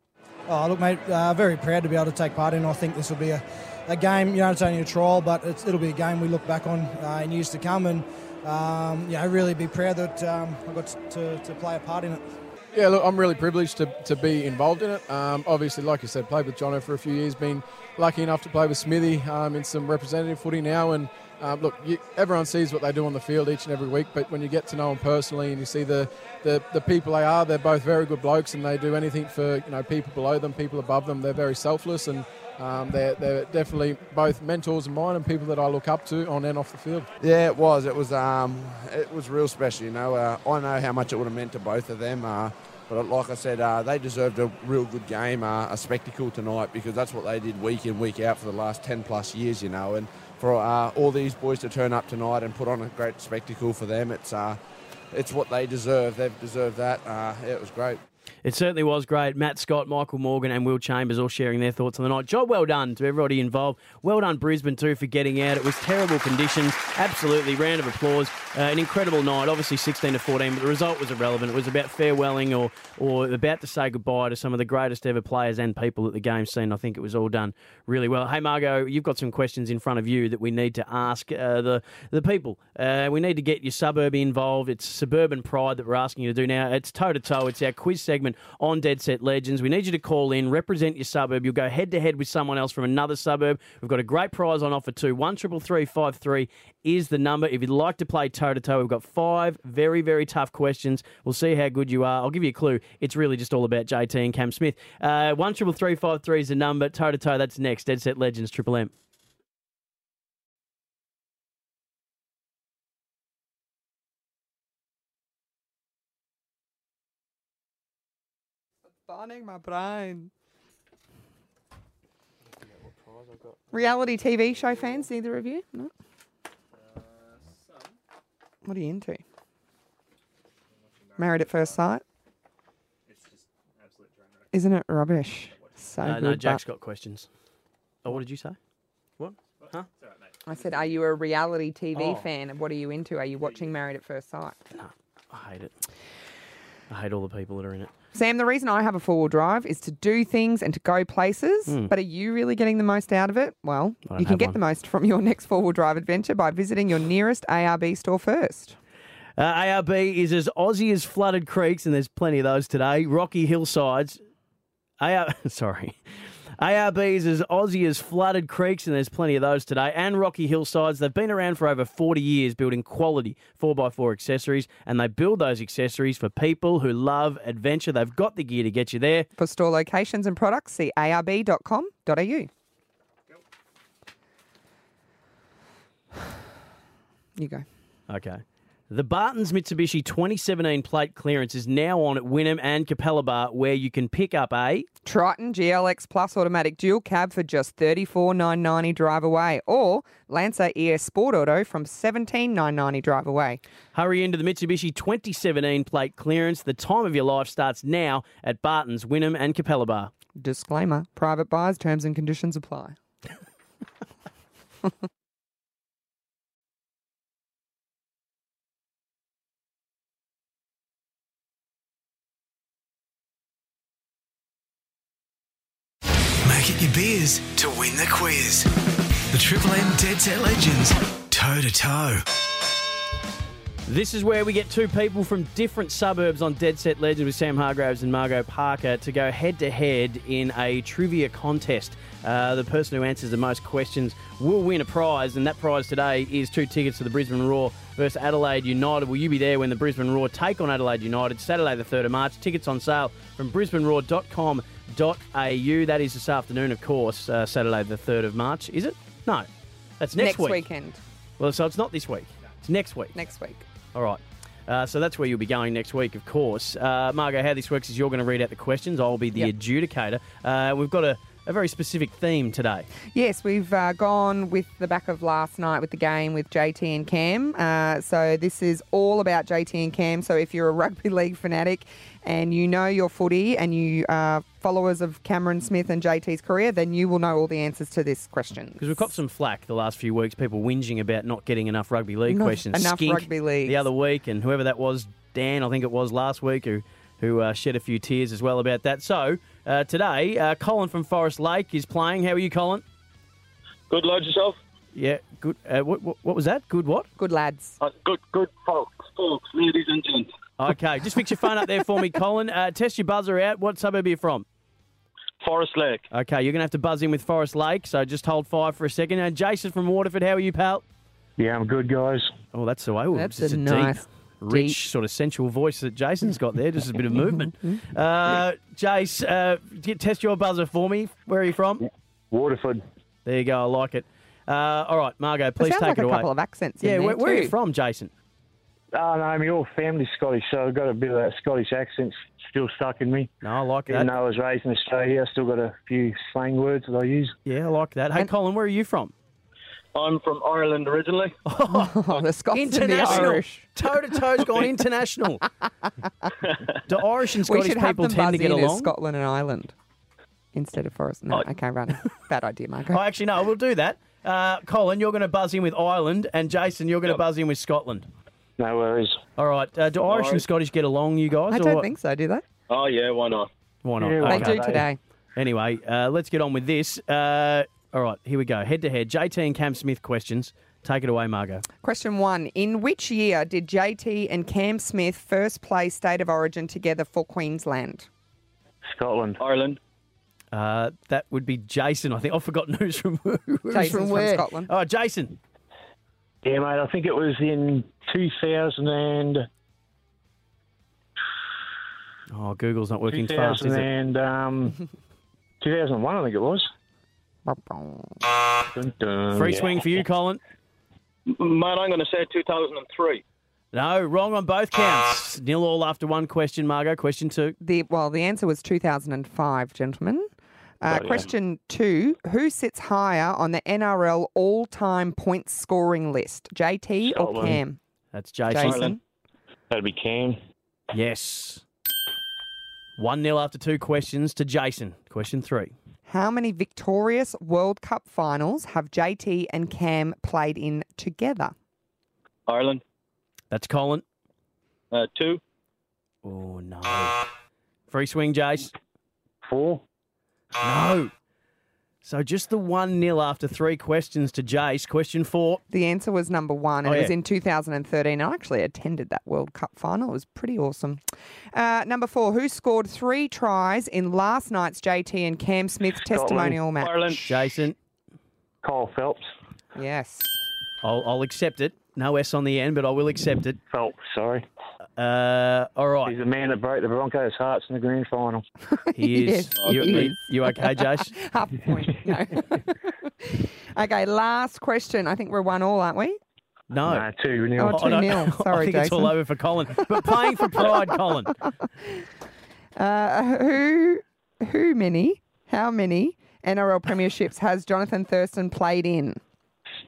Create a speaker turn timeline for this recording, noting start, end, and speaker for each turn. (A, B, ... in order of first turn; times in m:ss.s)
0:00.5-0:12.3 A
0:12.7-0:37.1 B
0:37.2-0:54.6 C
0:55.1-0:58.0 C
0:58.4-1:48.9 D
1:59.0-2:00.3 E
2:03.7-2:05.9 E
2:08.6-2:09.2 E
2:11.2-2:12.0 E
2:14.5-2:16.6 E
2:16.0-2:17.3 D
2:18.0-2:18.6 D
2:19.2-2:19.9 D
2:20.4-2:24.6 E
2:21.9-2:22.3 D
2:24.7-2:25.7 D
2:26.9-2:27.9 D
2:28.1-2:38.8 E
2:34.1-2:34.6 D
2:39.4-2:44.2 D
2:45.0-2:46.0 D
2:46.6-2:59.3 D
2:59.4-3:02.5 E
3:07.4-3:07.6 E
3:08.1-3:14.9 D
3:15.0-3:23.6 E
3:23.9-3:30.1 D
3:30.4-3:33.0 E
3:46.4-3:48.7 F
3:49.3-3:52.2 F
3:53.9-4:19.5 D
4:20.0-4:20.6 D
4:20.2-4:21.0 E
4:21.4-4:23.1 D
4:23.1-4:23.6 E
4:23.9-4:32.9 D
4:33.1-4:49.1 E
4:48.8-5:02.8 D
4:52.3-4:53.9 E
5:03.9-5:04.6 G
5:04.9-5:07.1 D
5:07.2-5:07.8 E
5:07.8-5:10.3 G
5:10.6-5:14.4 D
5:15.4-5:16.0 G
5:16.1-5:20.8 D
5:21.4-5:22.3 H
5:22.5-5:31.8 D
5:23.1-5:24.8 E
5:27.2-5:27.8 E
5:32.3-5:32.8 H
5:33.2-5:36.3 D
5:35.6-5:37.5 E
5:36.8-5:38.1 D
5:38.9-5:43.3 H
5:43.4-5:44.1 D
5:43.9-5:47.4 H
5:47.4-5:49.1 D
5:49.9-5:51.4 G
5:51.4-5:55.4 D
5:51.7-5:53.7 E
5:56.9-5:58.9 D
5:57.5-5:59.7 E
6:00.5-6:03.0 E
6:02.9-6:08.1 D
6:08.6-6:09.2 H
6:09.4-6:11.8 D
6:10.1-6:10.4 G
6:11.5-6:12.4 E
6:12.7-6:13.5 G
6:13.8-6:14.8 D
6:14.0-6:14.9 H
6:14.2-6:15.0 E
6:15.4-6:21.6 D
6:21.8-6:28.1 E
6:28.8-6:29.4 H
6:29.4-6:29.8 G
6:30.5-6:35.4 D
6:33.7-6:34.7 E
6:36.4-6:39.4 H
6:42.3-6:43.9 D
6:43.1-6:44.8 H
6:45.6-6:46.7 H
6:47.4-6:48.2 E
6:48.7-6:49.8 H
6:49.3-6:50.4 D
6:51.3-6:53.2 G
6:53.7-6:57.6 D
6:57.6-7:00.3 E
7:00.8-7:07.8 E
7:00.9-7:01.3 H
7:07.0-7:07.6 H
7:08.1-7:08.9 D
7:08.5-7:09.0 E
7:08.6-7:09.0 G
7:09.7-7:10.4 H
7:10.9-7:11.6 D
7:13.0-7:15.7 D
7:16.1-7:21.5 E
7:22.5-7:22.8 G
7:23.5-7:24.0 D
7:24.9-7:25.4 G
7:26.2-7:27.2 D
7:27.9-7:28.7 D
7:29.4-7:29.8 H
7:30.6-7:31.1 D
7:32.0-7:35.6 D
7:35.7-7:41.0 E
7:36.8-7:37.1 D
7:41.5-7:47.2 E
7:46.1-7:46.6 H
7:46.8-7:47.2 G
7:47.2-7:47.8 D
7:48.6-7:49.3 H
7:49.8-7:50.4 E
7:50.8-7:53.6 D
7:53.7-7:54.4 H
7:55.0-7:56.2 D
7:56.0-7:58.4 H
7:58.7-8:06.2 E
7:59.0-8:01.1 D
7:59.6-8:00.0 G
8:06.7-8:11.3 D
8:06.8-8:08.1 H
8:07.6-8:09.1 E
8:10.0-8:10.9 E
8:11.4-8:12.1 E
8:12.8-8:19.2 E